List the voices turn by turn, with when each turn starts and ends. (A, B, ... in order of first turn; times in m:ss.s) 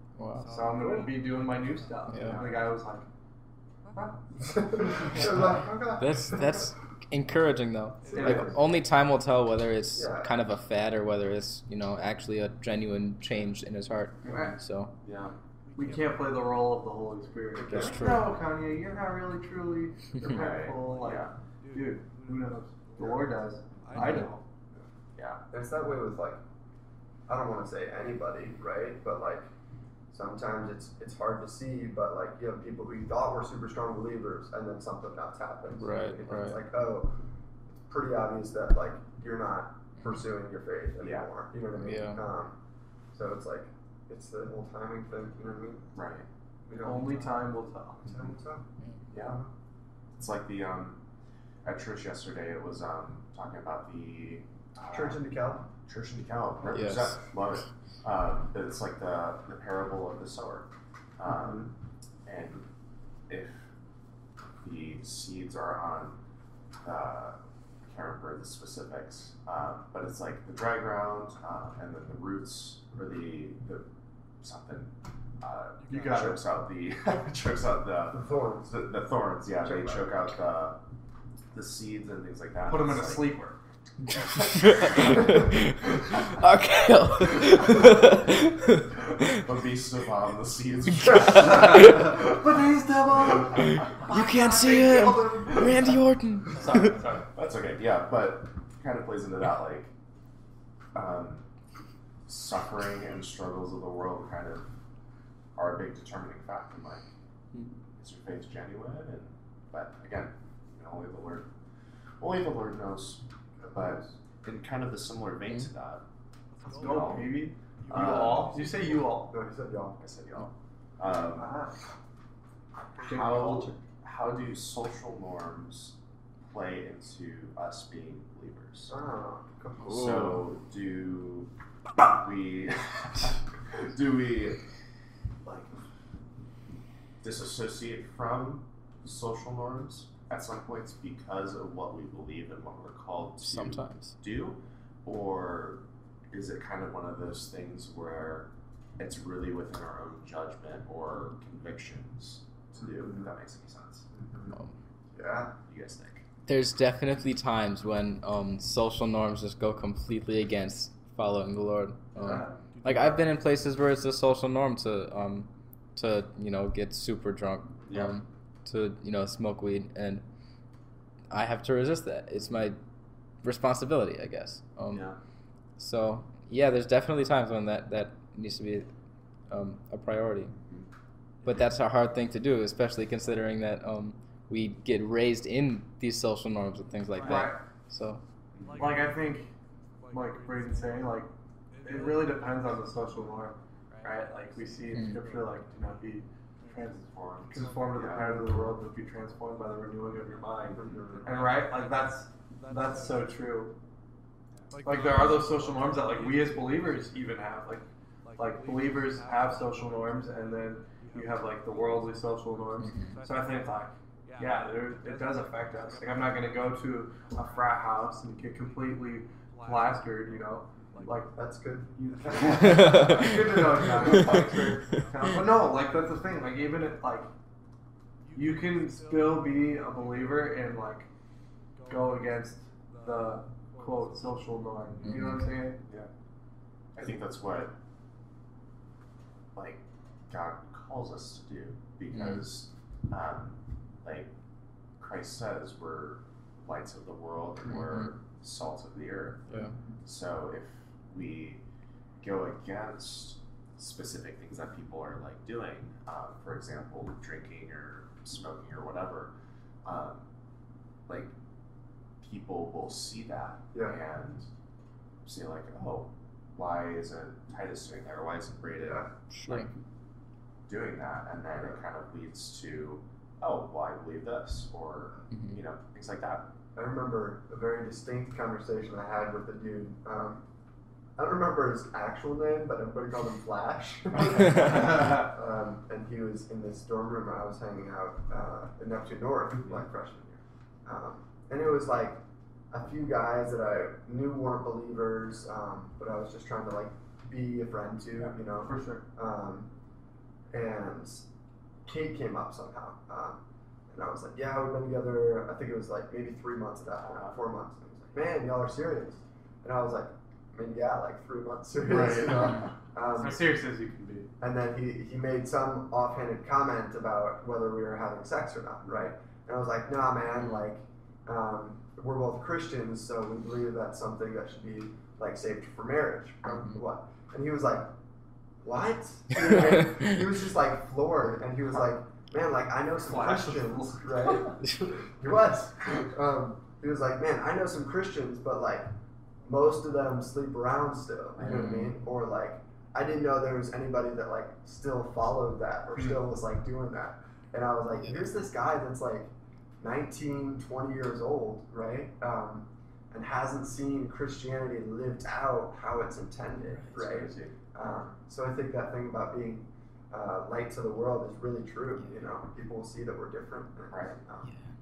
0:00.2-0:00.5 A
0:00.4-0:03.1 B
0:00.8-0:01.0 C
0:02.1-0:02.4 A
0:02.2-0:02.6 D
0:03.9-0:04.2 B
0:04.4-0:06.7 C
0:05.5-0:14.9 A
0:08.0-0:08.6 C
0:08.1-0:08.5 B
0:09.9-0:10.3 C
0:14.2-0:14.5 B
0:15.0-0:15.3 D
0:15.7-0:24.4 B
0:17.6-0:18.0 C
0:17.6-0:18.3 A
0:20.2-0:21.3 D
0:23.0-0:23.2 C
0:23.9-0:24.3 A
0:25.5-0:26.4 C
0:27.3-0:29.5 C
0:30.1-0:37.1 C
0:35.7-0:36.6 A
0:37.7-0:42.6 C
0:41.0-0:41.3 D
0:41.7-0:42.2 A
0:43.1-0:45.9 C
0:45.9-0:46.3 D
0:46.6-0:47.4 C
0:46.8-0:48.0 B
0:48.0-0:49.5 C
0:49.1-0:49.4 D
0:50.2-0:51.0 D
0:51.6-0:55.2 D
0:54.9-0:55.6 C
0:55.8-1:01.7 D
0:56.7-0:57.2 A
1:01.3-1:01.7 C
1:02.2-1:02.7 D
1:03.3-1:03.6 D
1:04.6-1:06.2 D
1:06.8-1:13.8 D
1:14.4-1:20.8 D
1:15.9-1:16.4 B
1:18.1-1:18.7 C
1:21.5-1:23.3 D
1:22.6-1:23.6 B
1:24.2-1:29.4 A
1:24.2-1:25.4 D
1:29.2-1:32.4 D
1:31.1-1:32.1 A
1:31.3-1:37.3 B
1:33.5-1:36.9 A
1:37.3-1:39.9 D
1:40.9-1:41.4 D
1:42.2-1:44.7 D
1:45.6-1:47.0 D
1:48.0-1:51.5 D
1:52.2-1:56.0 D
1:53.6-1:54.1 C
1:56.6-1:59.2 D
1:56.7-1:59.3 B
1:59.3-2:00.0 C
2:00.0-2:01.6 D
2:01.4-2:01.7 B
2:03.0-2:03.8 B
2:03.0-2:08.9 D
2:08.9-2:10.0 C
2:09.8-2:10.4 A
2:09.9-2:14.6 D
2:17.2-2:25.8 D
2:23.4-2:24.1 A
2:26.3-2:34.0 D
2:32.8-2:33.2 C
2:34.1-2:34.5 C
2:35.1-2:35.5 C
2:35.6-2:36.2 D
2:36.5-2:50.2 A
2:47.8-2:48.1 D
2:51.3-2:52.8 A
2:53.4-2:55.0 A
2:54.9-2:55.2 D
2:55.8-2:58.9 A
2:59.5-3:00.5 A
3:00.6-3:00.9 D
3:01.4-3:08.2 A
3:07.2-3:07.6 B
3:08.5-3:09.0 D
3:08.8-3:09.5 B
3:10.1-3:11.3 B
3:11.8-3:23.7 B
3:14.9-3:15.2 A
3:17.0-3:18.4 D
3:20.7-3:21.3 C
3:24.8-3:41.3 B
3:32.8-3:33.1 A
3:41.3-3:43.0 C
3:42.0-3:47.3 B
3:42.6-3:45.0 A
3:48.3-3:51.1 B
3:51.9-3:55.8 B
3:55.0-3:55.5 A
3:56.9-3:57.7 D
3:59.5-4:04.3 D
4:02.1-4:02.4 A
4:05.0-4:11.6 D
4:12.2-4:19.3 D
4:19.8-4:20.2 D
4:21.1-4:21.3 D
4:22.2-4:24.5 D
4:25.2-4:29.6 D
4:28.8-4:29.1 C
4:29.3-4:29.7 A
4:30.7-4:36.4 D
4:36.7-4:40.4 C
4:41.2-4:59.7 C
4:58.6-4:59.0 B
5:00.5-5:01.2 C
5:01.8-5:13.4 C
5:12.0-5:12.5 B
5:13.2-5:14.3 B
5:14.4-5:27.9 C
5:28.6-5:38.9 C
5:33.0-5:34.5 B
5:39.4-6:04.4 C
5:41.4-5:42.0 A
5:56.9-5:57.5 D
6:03.9-6:04.2 D